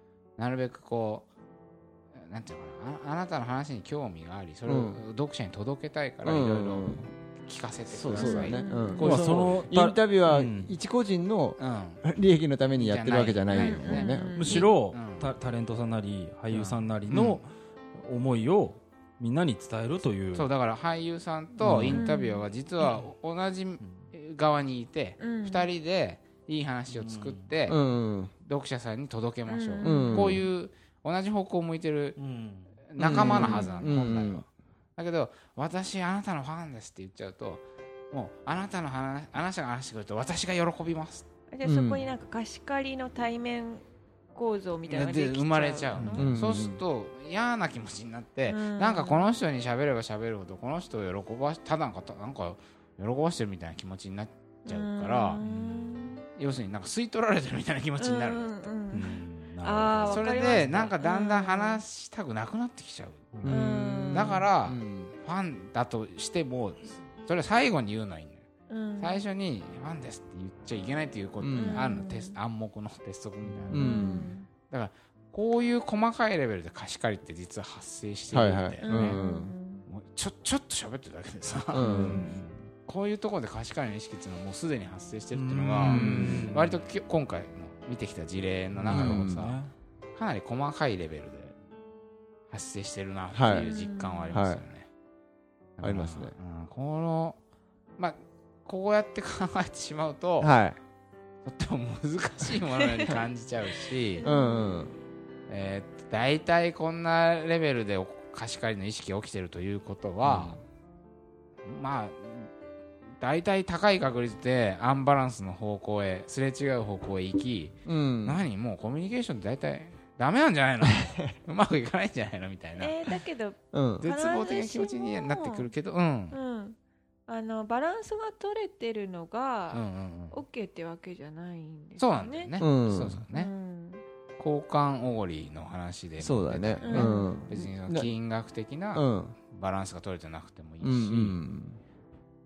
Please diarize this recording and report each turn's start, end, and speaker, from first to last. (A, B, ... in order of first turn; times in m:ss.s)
0:00.4-0:01.3 A
0:02.1-0:09.6 A
0:04.6-0:05.0 B
0:06.2-0:07.1 B
0:07.9-0:14.3 B
0:08.2-0:09.0 C
0:09.0-0:10.7 D
0:11.6-0:12.0 A
0:12.8-0:15.3 A
0:13.5-0:14.7 C
0:14.3-0:20.5 D
0:16.5-0:17.4 A
0:20.3-0:27.8 A
0:21.6-0:22.0 D
0:21.9-0:22.4 C
0:25.2-0:25.7 C
0:26.9-0:27.5 D
0:27.7-0:28.3 B
0:28.4-0:32.2 A
0:29.5-0:30.4 C
0:29.8-0:30.4 B
0:32.2-0:32.7 D
0:32.8-0:34.4 A
0:33.0-0:34.4 B
0:33.1-0:33.8 C
0:35.0-0:41.3 A
0:41.5-0:46.3 C
0:41.6-0:42.0 B
0:44.9-0:55.4 A
0:46.0-0:46.3 D
0:46.1-0:46.8 B
0:48.5-0:49.2 C
0:54.7-0:56.2 C
0:55.4-0:56.0 D
0:56.4-0:58.5 A
0:58.0-1:01.8 C
0:58.9-1:00.9 D
1:00.0-1:03.3 A
1:03.3-1:03.6 D
1:03.4-1:05.1 B
1:03.5-1:04.4 C
1:04.1-1:08.4 A
1:08.7-1:09.2 C
1:09.0-1:14.1 A
1:11.4-1:11.8 B
1:11.6-1:12.4 C
1:13.4-1:13.7 D
1:13.7-1:14.3 B
1:13.7-1:14.5 C
1:14.7-1:19.2 A
1:18.3-1:19.5 B
1:18.8-1:19.8 C
1:19.9-1:22.2 A
1:21.7-1:22.2 B
1:21.8-1:22.2 C
1:21.8-1:22.6 D
1:22.8-1:29.6 A
1:25.3-1:26.8 D
1:25.9-1:26.5 B
1:28.7-1:29.7 D
1:28.9-1:29.5 B
1:30.1-1:31.6 A
1:32.5-1:34.9 A
1:33.3-1:33.7 B
1:33.5-1:34.3 C
1:34.3-1:34.6 B
1:35.8-1:37.4 A
1:35.8-1:36.3 B
1:38.0-1:40.5 A
1:40.4-1:40.8 B
1:41.4-1:44.2 A
1:44.2-1:44.8 C
1:44.2-1:44.9 B
1:45.5-1:50.6 A
1:50.2-1:50.6 B
1:51.6-1:52.5 A
1:53.2-2:03.1 A
1:57.8-1:58.4 B
2:01.0-2:01.3 B
2:02.8-2:05.7 C
2:03.7-2:04.0 B
2:04.0-2:06.4 A
2:06.3-2:12.6 C
2:09.7-2:10.4 A
2:12.0-2:13.5 A
2:12.6-2:13.2 B
2:13.3-2:14.0 C
2:14.4-2:21.4 A
2:16.2-2:18.1 B
2:16.8-2:17.3 C
2:18.9-2:19.3 B
2:20.8-2:21.8 B